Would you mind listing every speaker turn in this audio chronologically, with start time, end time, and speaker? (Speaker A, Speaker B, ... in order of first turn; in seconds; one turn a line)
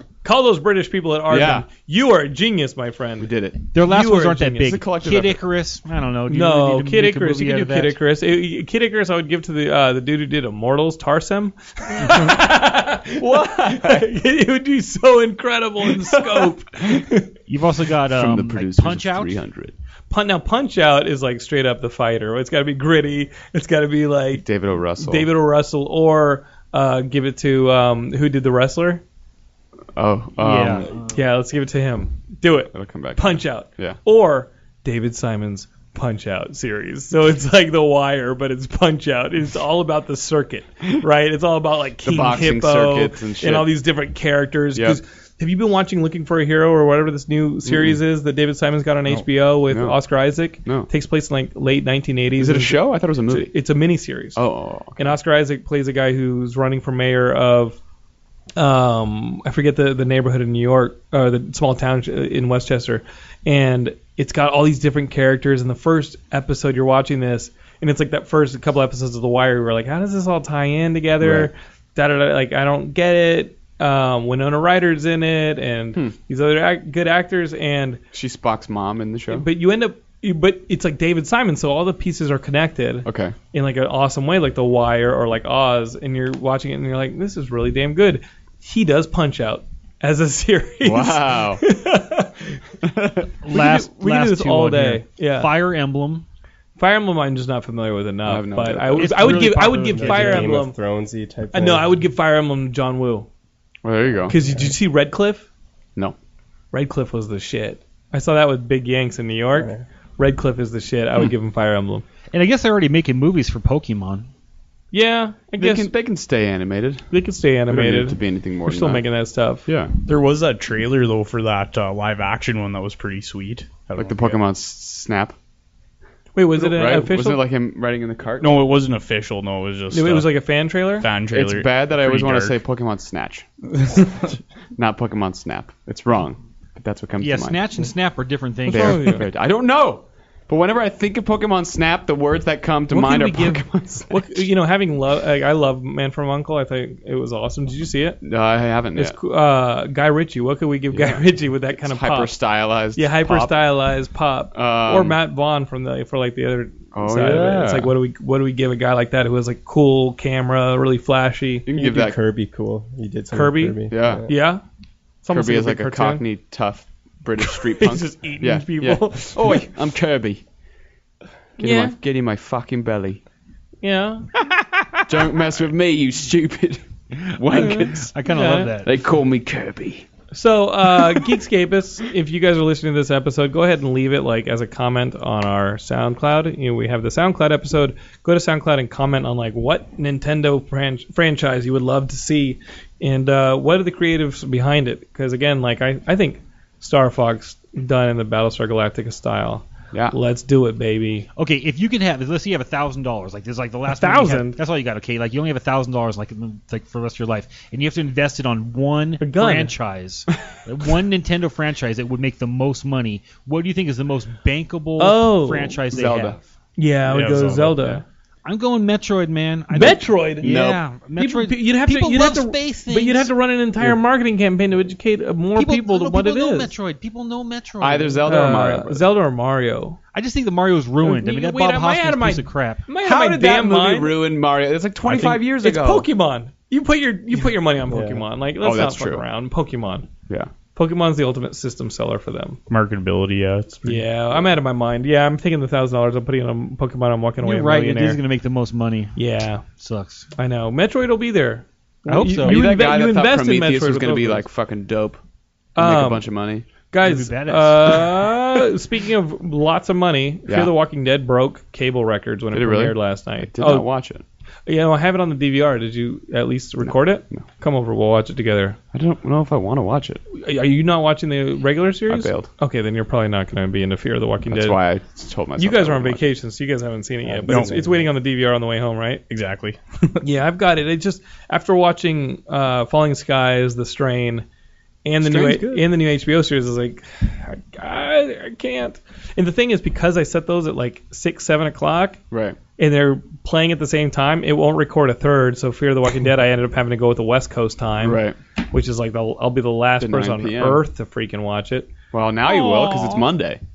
Speaker A: 0.2-3.3
Speaker B: 1.3-1.6
Speaker B: 3.2-3.7
Speaker C: 3.7-8.0
Speaker A: 3.8-4.8
Speaker B: 4.6-5.4
Speaker A: 6.3-17.3
Speaker B: 12.0-12.3
Speaker B: 13.2-14.1
Speaker B: 16.0-16.5
Speaker C: 17.5-19.4
Speaker B: 18.1-19.7
Speaker A: 20.1-24.4
Speaker B: 24.4-25.3
Speaker A: 25.0-29.0
Speaker B: 29.9-30.9
Speaker C: 30.4-31.2
Speaker A: 31.1-54.4
Speaker B: 32.7-34.0
Speaker B: 42.0-43.7
Speaker B: 47.7-48.0
Speaker B: 49.1-50.0
Speaker B: 52.4-53.5
Speaker B: 54.4-55.1
Speaker A: 55.0-57.8
Speaker A: 58.6-78.0
Speaker B: 71.2-71.5
Speaker B: 78.1-79.5
Speaker A: 79.3-92.6
Speaker B: 83.0-83.3
Speaker B: 90.8-91.6
Speaker B: 92.8-93.3
Speaker C: 93.4-96.2
Speaker A: 93.5-95.5
Speaker A: 96.8-100.7
Speaker B: 98.2-99.4
Speaker C: 98.9-100.6
Speaker D: 99.4-102.0
Speaker A: 101.5-103.3
Speaker B: 103.8-104.3
Speaker A: 104.3-105.5
Speaker D: 104.3-104.7
Speaker A: 106.7-112.0
Speaker D: 109.5-109.8
Speaker C: 112.3-114.3
Speaker A: 114.9-115.9
Speaker B: 115.6-117.1
Speaker A: 117.1-119.7
Speaker B: 117.7-119.0
Speaker B: 119.7-119.9
Speaker E: 120.0-124.4
Speaker B: 124.0-125.3
Speaker A: 126.3-127.4
Speaker B: 126.6-128.6
Speaker E: 128.4-130.3
Speaker A: 129.9-131.1
Speaker E: 131.0-132.6
Speaker B: 131.3-134.1
Speaker E: 133.9-134.2
Speaker B: 134.8-137.9
Speaker C: 137.2-139.1
Speaker B: 138.7-144.4
Speaker A: 138.7-139.2
Speaker A: 142.9-148.2
Speaker B: 148.2-149.2
Speaker A: 148.9-152.3
Speaker B: 150.9-151.2
Speaker B: 151.7-153.5
Speaker A: 152.9-161.7
Speaker B: 154.5-155.2
Speaker B: 156.9-157.9
Speaker B: 161.7-162.2
Speaker D: 161.7-164.3
Speaker A: 163.3-164.6
Speaker B: 163.9-164.3
Speaker A: 165.2-166.2
Speaker B: 165.3-170.4
Speaker A: 167.4-169.7
Speaker B: 171.6-173.2
Speaker A: 171.6-171.9
Speaker A: 173.8-174.3
Speaker B: 175.1-178.1
Speaker C: 177.5-178.9
Speaker A: 177.5-178.7
Speaker B: 178.8-180.1
Speaker A: 180.3-201.3
Speaker C: 201.3-216.5
Speaker A: 203.9-204.6
Speaker A: 209.2-209.7
Speaker A: 215.0-215.8
Speaker B: 215.9-216.4
Speaker A: 216.8-218.0
Speaker E: 217.1-218.0
Speaker C: 218.4-223.3
Speaker A: 219.7-220.5
Speaker B: 220.4-220.8
Speaker A: 221.2-226.7
Speaker C: 225.6-228.2
Speaker B: 227.8-229.1
Speaker A: 228.2-230.0
Speaker C: 230.1-232.8
Speaker A: 231.0-234.2
Speaker B: 233.0-236.1
Speaker A: 235.1-240.1
Speaker D: 237.9-238.2
Speaker B: 238.6-239.2
Speaker A: 240.7-242.6
Speaker E: 242.7-244.0
Speaker A: 243.8-248.2
Speaker C: 247.4-249.2
Speaker A: 249.2-249.7
Speaker C: 249.8-250.3
Speaker A: 250.3-254.4
Speaker C: 252.1-252.7
Speaker B: 252.3-255.2
Speaker A: 255.8-256.2
Speaker B: 255.8-256.6
Speaker A: 256.9-263.9
Speaker C: 257.0-258.4
Speaker B: 262.5-264.2
Speaker A: 264.7-268.8
Speaker B: 268.9-270.2
Speaker A: 270.3-274.8
Speaker B: 272.1-272.5
Speaker B: 274.5-276.2
Speaker A: 275.6-279.2
Speaker D: 277.2-278.1
Speaker E: 277.5-277.8
Speaker E: 279.3-280.2
Speaker A: 280.2-284.4
Speaker A: 285.0-292.2
Speaker B: 285.2-285.8
Speaker B: 292.3-292.6
Speaker A: 292.8-301.9
Speaker B: 298.0-298.4
Speaker B: 300.0-300.8
Speaker B: 302.1-303.6
Speaker A: 302.5-303.2